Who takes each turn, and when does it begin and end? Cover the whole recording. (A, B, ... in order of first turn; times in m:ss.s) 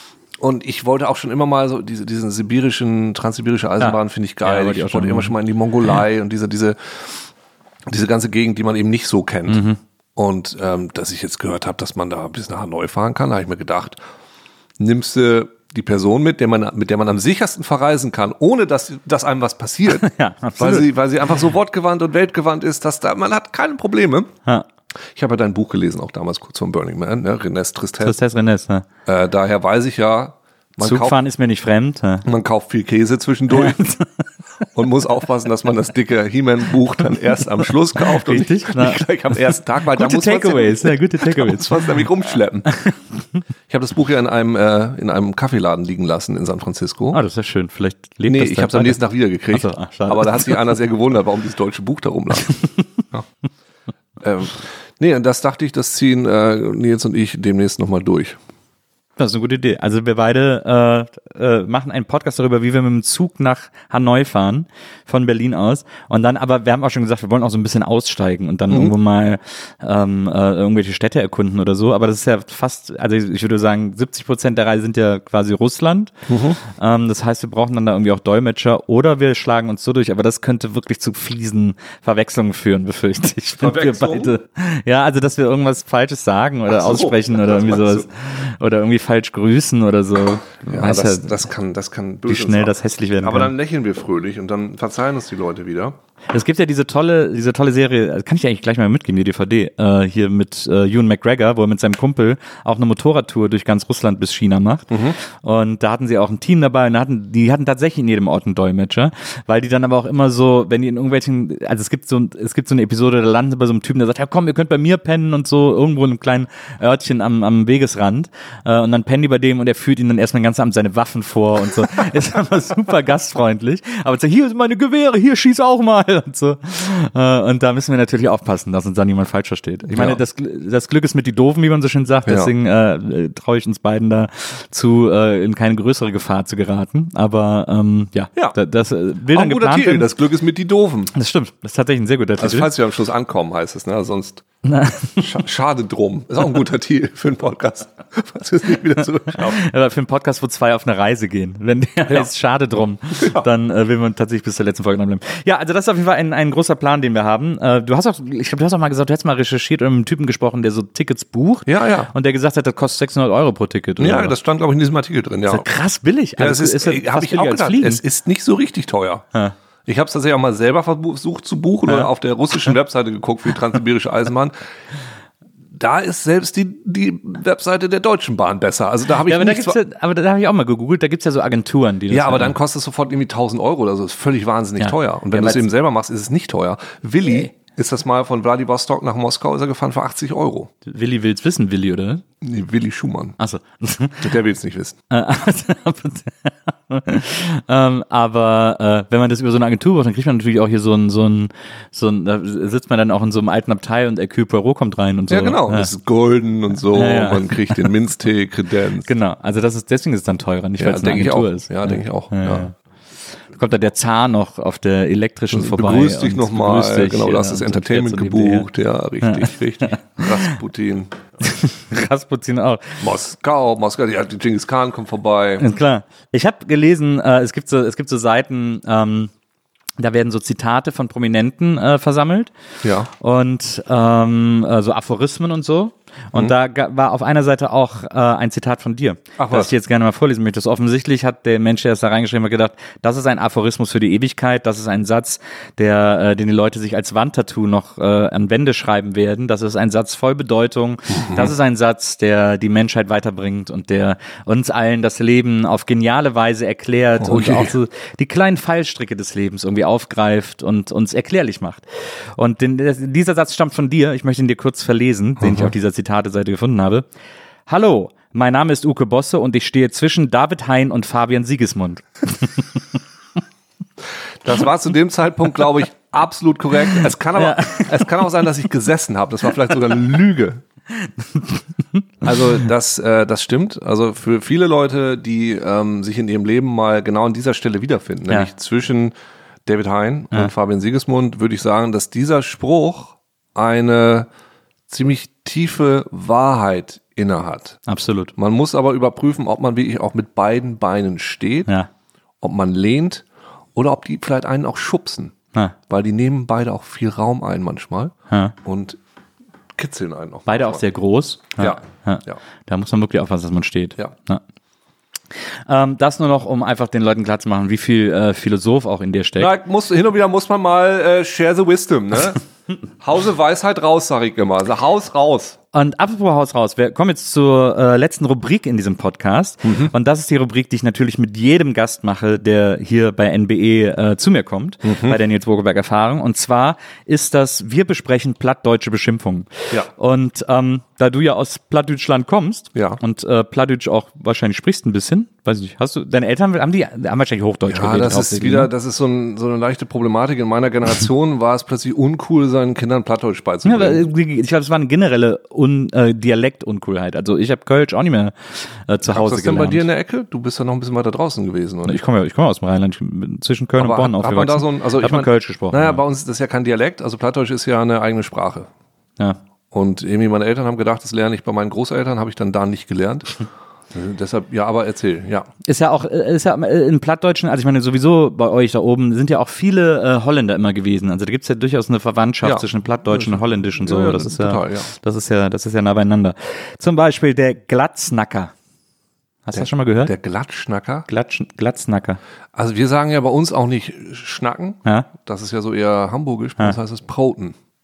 0:00.4-0:07.3 A
0:03.8-0:05.3 B
0:07.9-0:09.6 A
0:09.5-0:09.8 B
0:10.2-0:14.0 A
0:14.8-0:24.3 A
0:19.9-0:20.9 B
0:25.2-0:28.2 A
0:28.0-0:28.9 B
0:29.1-0:31.2 A
0:30.8-0:32.3 B
0:32.2-0:33.9 A
0:33.6-0:34.3 B
0:34.7-0:42.7 A
0:38.0-0:41.9 B
0:42.7-0:43.0 B
0:43.7-0:47.2 A
0:47.1-0:50.6 B
0:48.3-0:52.6 A
0:52.6-0:52.8 B
0:54.2-0:58.4 A
0:59.2-1:31.3 B
1:08.7-1:09.0 A
1:16.3-1:16.6 A
1:23.6-1:24.4 A
1:26.7-1:28.1 A
1:30.7-1:36.0 A
1:32.3-1:33.5 B
1:36.3-2:20.1 B
1:44.9-1:45.2 A
2:09.9-2:10.2 A
2:12.3-2:12.5 A
2:19.3-2:21.1 A
2:21.2-2:22.7 B
2:22.4-2:24.4 A
2:24.6-2:25.3 B
2:25.2-2:29.6 A
2:29.3-2:44.4 B
2:33.2-2:33.5 A
2:41.7-2:42.1 A
2:44.0-2:45.7 A
2:45.5-2:48.0 B
2:46.4-2:49.3 A
2:49.8-2:54.6 A
2:55.7-2:59.8 A
2:59.2-3:02.6 B
3:02.1-3:10.7 A
3:04.8-3:05.6 B
3:07.2-3:07.5 B
3:10.8-3:12.2 B
3:12.4-3:13.4 A
3:13.4-3:14.3 B
3:14.2-3:15.0 A
3:15.1-3:25.9 B
3:25.3-3:29.1 A
3:27.0-3:27.8 B
3:29.1-3:32.8 B
3:30.8-3:32.7 A
3:33.6-3:38.7 B
3:35.5-3:41.2 A
3:39.2-3:40.5 B
3:41.4-3:43.0 B
3:43.0-3:45.7 A
3:45.6-3:49.3 B
3:50.0-3:52.5 B
3:52.8-3:53.1 A
3:53.1-4:27.1 B
3:59.4-3:59.7 A
4:11.1-4:11.5 A
4:17.2-4:17.8 A
4:25.4-4:25.7 A
4:27.7-4:32.8 B
4:34.4-4:40.6 A
4:37.4-4:38.4 B
4:41.0-4:42.0 B
4:42.2-4:49.1 A
4:49.7-4:54.3 A
4:54.9-4:57.8 A
4:57.9-4:58.3 B
4:58.4-5:01.7 A
5:02.4-5:05.4 A
5:05.9-5:09.0 A
5:08.3-5:08.6 B
5:09.8-5:10.8 A
5:10.5-5:14.4 B
5:11.6-5:12.4 A
5:15.7-5:19.5 B
5:19.4-5:22.4 A
5:23.0-5:25.6 A
5:25.7-5:48.7 B
5:29.6-5:29.9 A
5:34.8-5:35.2 A
5:42.8-5:43.0 A
5:47.7-5:54.1 A
5:53.6-5:59.8 B
5:59.1-6:02.0 A
6:01.9-6:06.0 B
6:03.8-6:08.7 A
6:09.7-6:15.5 A
6:15.6-6:28.5 B
6:22.4-6:24.9 A
6:29.4-6:30.1 B
6:29.6-6:31.1 A
6:31.1-6:32.2 B
6:32.5-6:37.6 A